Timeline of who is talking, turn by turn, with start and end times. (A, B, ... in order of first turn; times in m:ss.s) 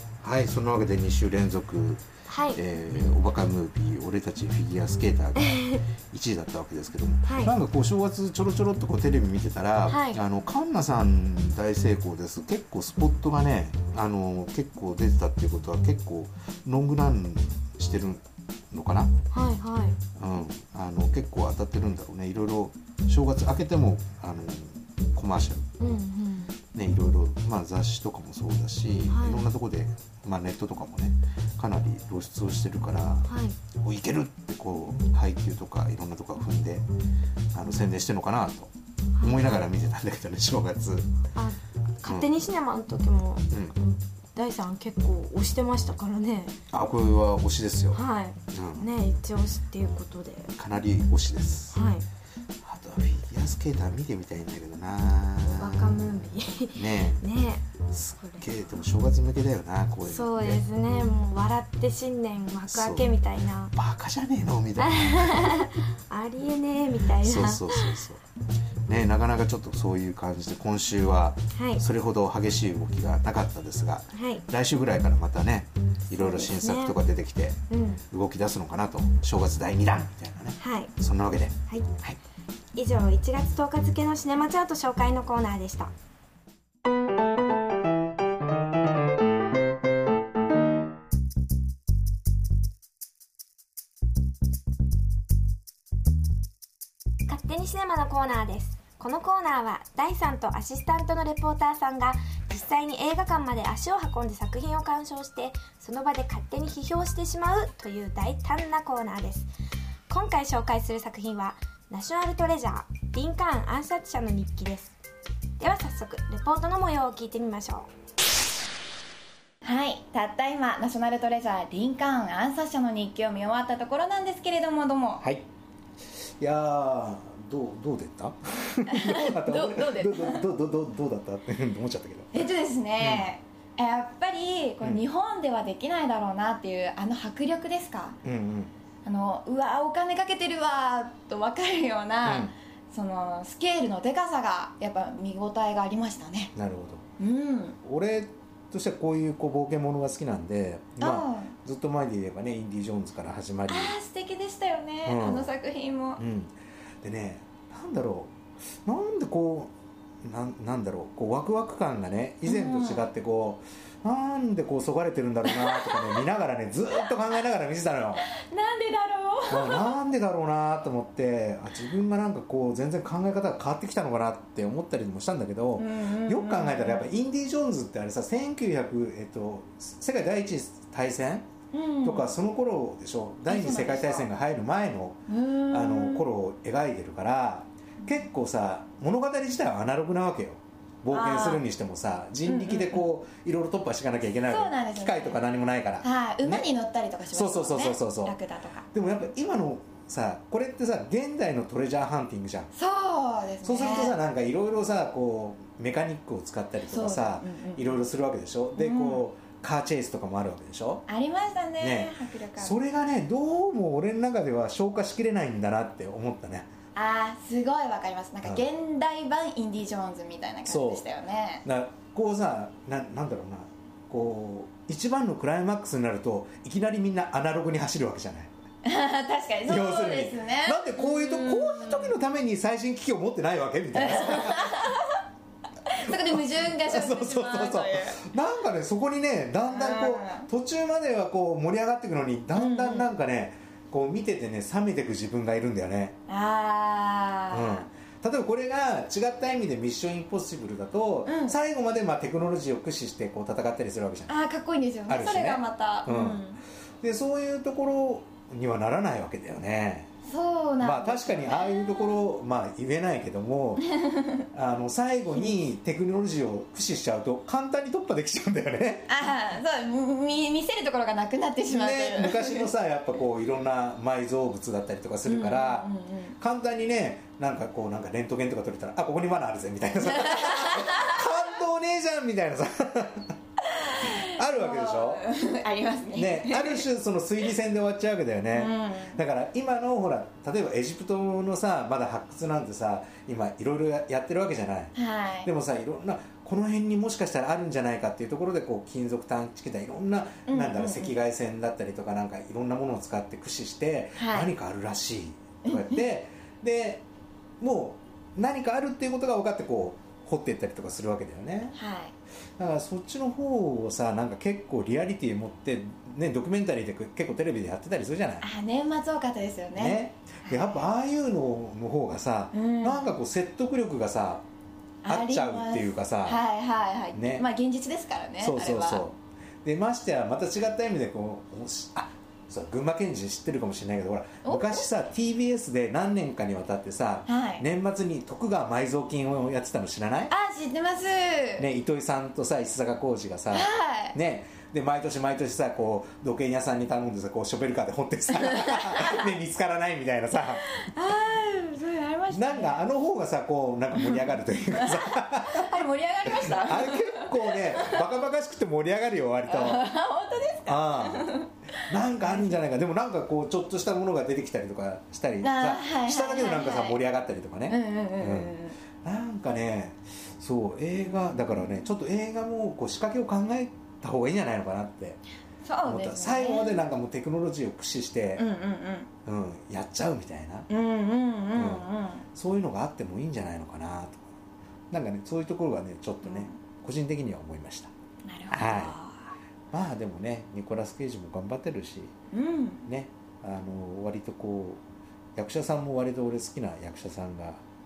0:00.2-0:02.0 A
0:02.3-0:02.6 B
0:02.5-0:19.1 A
0:05.4-0:05.8 B
0:07.2-0:07.5 B
0:09.9-0:10.2 B
0:19.3-0:20.0 B
0:20.2-0:25.7 A
0:25.8-0:26.6 B
0:26.7-0:36.8 A
0:29.1-0:29.5 B
0:33.3-0:33.6 B
0:37.5-0:41.1 A
0:39.2-0:39.6 B
0:41.3-0:46.5 B
0:42.0-0:42.3 A
0:46.7-0:48.9 A
0:47.9-0:50.5 B
0:50.6-0:51.8 A
0:51.7-0:52.0 B
0:52.6-0:56.1 A
0:55.5-0:58.7 B
0:56.7-0:57.2 A
0:57.9-1:00.6 A
1:00.0-1:03.7 B
1:02.7-1:03.1 A
1:03.7-1:05.7 A
1:04.8-1:08.0 B
1:07.2-1:08.2 A
1:08.9-1:17.6 A
1:11.5-1:11.8 B
1:14.1-1:14.4 B
1:16.1-1:17.0 B
1:17.7-1:18.0 B
1:18.1-1:22.2 A
1:20.6-1:20.9 B
1:22.7-1:25.9 B
1:37.3-1:49.5 B
1:50.1-1:55.0 B
1:55.6-1:57.9 B
1:59.6-2:05.2 C
2:05.2-2:05.4 A
2:06.4-2:12.4 A
2:08.9-2:10.4 C
2:12.3-2:18.2 C
2:13.0-2:13.3 A
2:18.2-2:18.7 A
2:19.0-2:26.5 C
2:22.2-2:22.5 A
2:26.6-2:27.1 A
2:27.2-2:27.8 C
2:27.8-2:34.0 A
2:31.0-2:31.5 C
2:33.7-2:36.2 C
2:35.0-2:35.5 A
2:36.2-2:39.7 A
2:40.2-2:48.2 A
2:42.4-2:43.1 C
2:48.3-2:49.9 B
2:49.5-3:01.5 A
2:55.8-2:57.1 C
3:01.7-3:02.4 C
3:02.0-3:16.6 A
3:03.5-3:04.3 C
3:05.3-3:06.2 C
3:11.1-3:11.6 C
3:12.4-3:13.0 C
3:14.5-3:15.4 C
3:16.0-3:18.9 C
3:17.3-3:18.4 A
3:18.9-3:22.7 A
3:22.7-3:24.2 C
3:23.6-3:31.0 A
3:26.8-3:28.0 C
3:28.8-3:29.3 C
3:31.1-3:32.8 C
3:31.8-3:36.7 A
3:36.9-3:41.6 C
3:40.6-3:41.0 A
3:41.6-3:48.5 A
3:48.8-3:52.2 C
3:49.7-3:55.0 A
3:53.9-3:55.1 C
3:55.9-3:58.3 C
3:56.0-4:06.2 A
3:59.7-4:00.5 C
4:02.5-4:03.1 C
4:06.3-4:07.9 C
4:07.5-4:14.3 A
4:11.2-4:11.6 C
4:14.3-4:16.6 C
4:15.1-4:16.4 A
4:17.0-4:20.1 A
4:20.2-4:21.8 C
4:20.8-4:23.9 A
4:23.8-4:24.4 C
4:24.5-4:29.2 A
4:29.1-4:32.7 C
4:31.7-4:35.9 A
4:35.2-4:36.4 C
4:36.4-4:43.3 A
4:40.2-4:41.2 C
4:43.9-4:46.8 C
4:44.0-4:45.2 A
4:46.1-4:54.9 A
4:48.5-4:49.2 C
4:55.0-4:55.5 C
4:55.4-5:07.0 A
5:00.5-5:01.2 C
5:04.2-5:04.5 C
5:05.6-5:06.0 C
5:07.6-5:11.8 A
5:11.8-5:12.1 C
5:12.6-5:18.4 A
5:18.4-5:20.8 C
5:19.8-5:24.4 A
5:22.5-5:23.2 C
5:25.0-5:29.0 C
5:25.1-5:26.4 A
5:27.1-5:27.4 A
5:28.4-5:40.3 A
5:34.4-5:34.8 C
5:37.3-5:37.6 C
5:40.3-5:41.6 C
5:41.6-5:50.6 A
5:43.5-5:44.2 C
5:48.6-5:49.1 C
5:50.8-5:52.8 C
5:52.3-5:55.7 A
5:54.0-5:58.1 C
5:56.2-5:59.8 A
5:59.5-6:02.6 C
6:00.6-6:15.2 A
6:05.4-6:07.0 C
6:07.7-6:08.8 C
6:15.6-6:16.8 C
6:15.8-6:18.5 A
6:18.4-6:19.1 C
6:19.2-6:20.7 A
6:20.7-6:22.2 C
6:21.5-6:24.3 A
6:24.9-6:27.9 A
6:26.2-6:26.6 C
6:28.2-6:29.3 C
6:28.5-6:29.0 A
6:29.7-6:32.1 A
6:32.3-6:32.8 C
6:32.8-6:34.8 A
6:35.3-6:37.6 A